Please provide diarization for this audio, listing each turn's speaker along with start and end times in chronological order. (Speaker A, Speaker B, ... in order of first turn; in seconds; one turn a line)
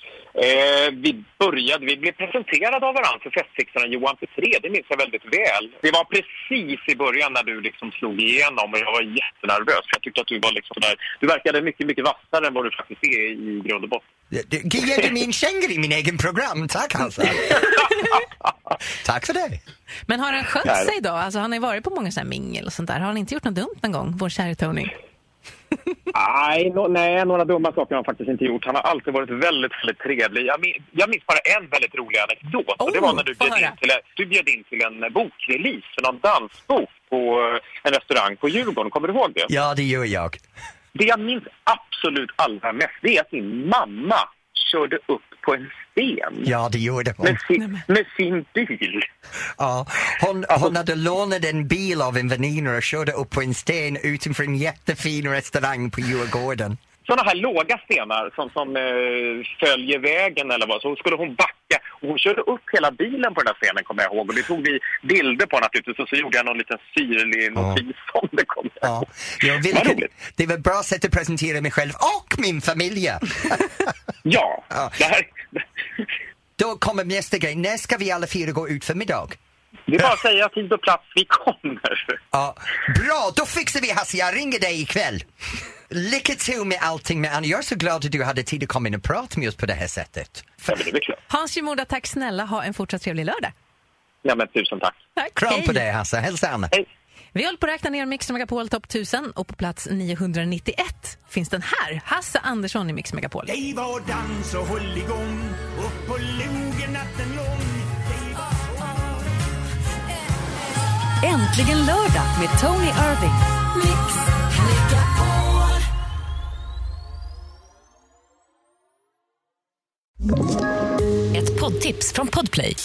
Speaker A: 0.3-14.1
Speaker B: 14.3-17.6
Speaker B: 19.0-19.6
Speaker C: 20.1-24.9
Speaker A: 20.6-20.9
Speaker A: 26.1-39.5
Speaker C: 32.8-33.8
Speaker B: 39.5-40.4
Speaker A: 41.0-46.5
Speaker B: 46.5-47.4
Speaker A: 47.2-49.1
Speaker C: 47.5-47.9
Speaker B: 49.6-56.8
Speaker A: 50.5-50.8
Speaker A: 57.0-70.1
Speaker B: 67.6-67.8
Speaker B: 68.8-73.9
Speaker A: 74.2-76.1
Speaker B: 74.7-75.0
Speaker B: 76.6-79.4
Speaker A: 79.9-82.2
Speaker B: 82.3-85.2
Speaker B: 85.9-90.8
Speaker A: 90.7-91.2
Speaker C: 91.3-93.5
Speaker A: 94.2-95.0
Speaker C: 95.2-95.8
Speaker B: 95.4-96.7
Speaker C: 97.3-103.5
Speaker D: 103.6-105.4
Speaker D: 106.0-107.5
Speaker E: 111.5-112.1
Speaker E: 121.4-122.8